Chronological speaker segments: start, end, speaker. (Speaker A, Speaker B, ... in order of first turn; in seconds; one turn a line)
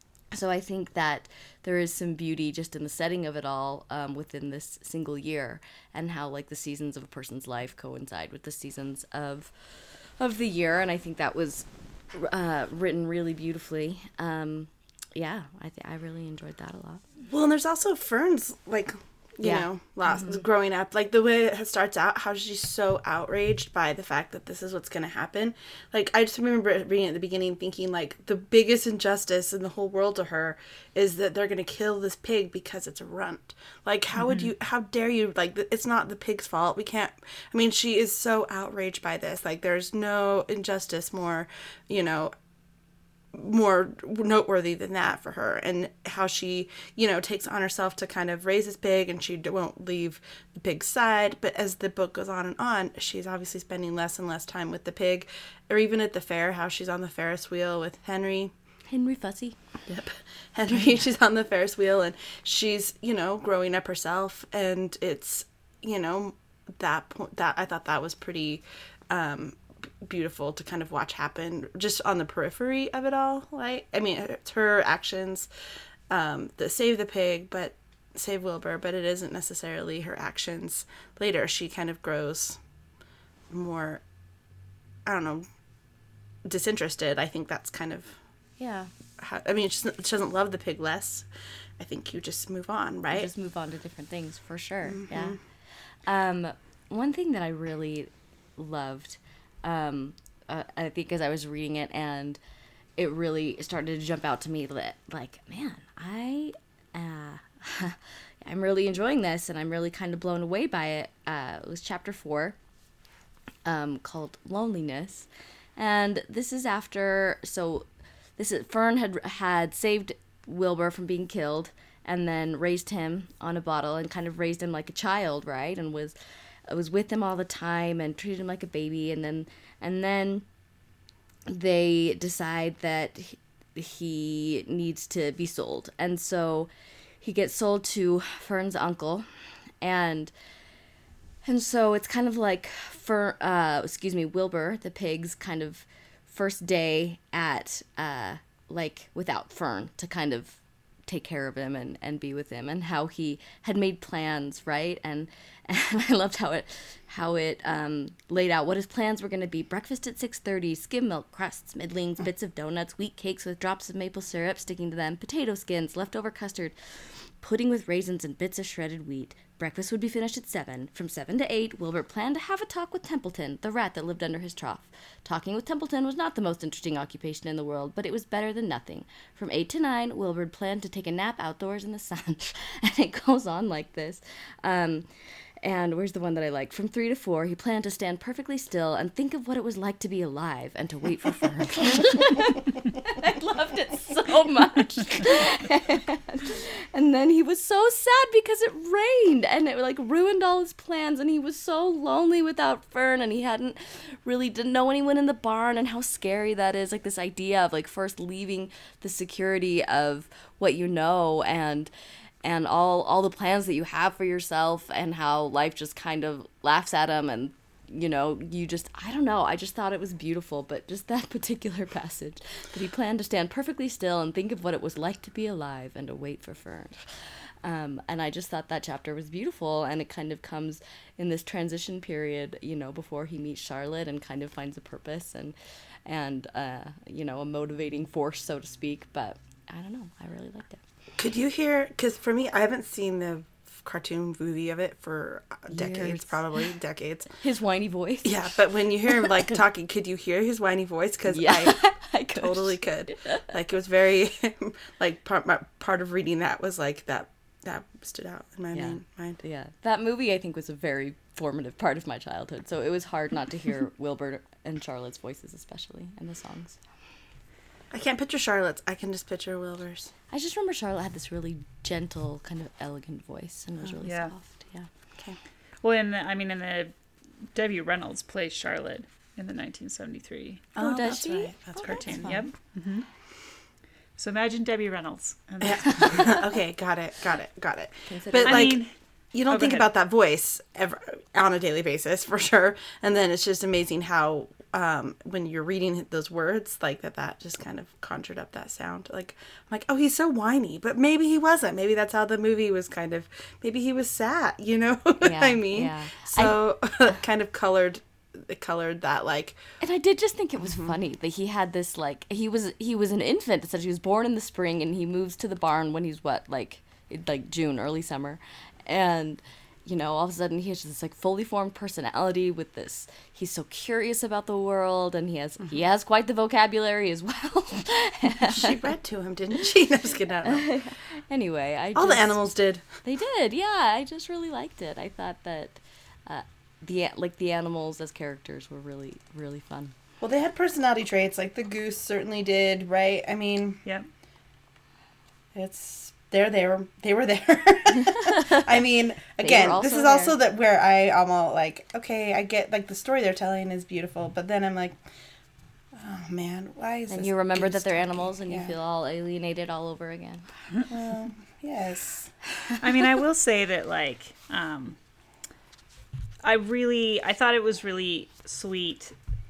Speaker A: 0.3-17.0
Speaker B: 17.3-42.3
Speaker A: 19.4-20.4
Speaker B: 43.3-58.5
Speaker A: 58.9-59.6
Speaker B: 59.9-75.5
Speaker B: 76.1-82.6
Speaker B: 83.5-84.0
Speaker B: 85.0-85.5
Speaker B: 86.5-88.2
Speaker A: 88.6-88.9
Speaker B: 89.2-91.3
Speaker B: 91.8-93.3
Speaker A: 93.1-102.4
Speaker B: 94.9-95.4
Speaker A: 103.0-112.6
Speaker A: 113.6-126.1
Speaker A: 126.7-130.4
Speaker A: 131.5-136.7
Speaker A: 137.2-139.3
Speaker A: 139.8-140.3
Speaker A: 141.4-166.8
Speaker A: 167.4-185.1
Speaker A: 185.6-211.9
Speaker A: 212.4-240.8
Speaker B: 241.2-247.3
Speaker A: 245.7-246.6
Speaker A: 247.4-249.2
Speaker B: 248.2-251.8
Speaker A: 251.3-253.5
Speaker B: 252.3-259.4
Speaker A: 258.7-266.8
Speaker B: 267.9-270.1
Speaker A: 270.3-274.9
Speaker C: 274.0-274.3
Speaker C: 275.8-276.9
Speaker C: 277.5-280.8
Speaker B: 280.8-282.4
Speaker A: 280.8-282.4
Speaker C: 281.8-283.1
Speaker C: 284.2-286.4
Speaker B: 285.6-309.6
Speaker A: 288.1-288.8
Speaker C: 288.4-288.9
Speaker C: 289.5-289.9
Speaker A: 305.2-306.6
Speaker A: 309.8-328.8
Speaker B: 310.6-310.9
Speaker B: 328.5-330.7
Speaker A: 330.4-332.4
Speaker B: 331.9-332.9
Speaker A: 333.0-339.9
Speaker B: 340.2-343.8
Speaker B: 345.5-355.0
Speaker A: 348.0-348.7
Speaker A: 349.4-350.4
Speaker B: 355.9-358.7
Speaker A: 357.1-360.5
Speaker B: 360.9-362.8
Speaker C: 362.8-365.0
Speaker C: 366.4-369.1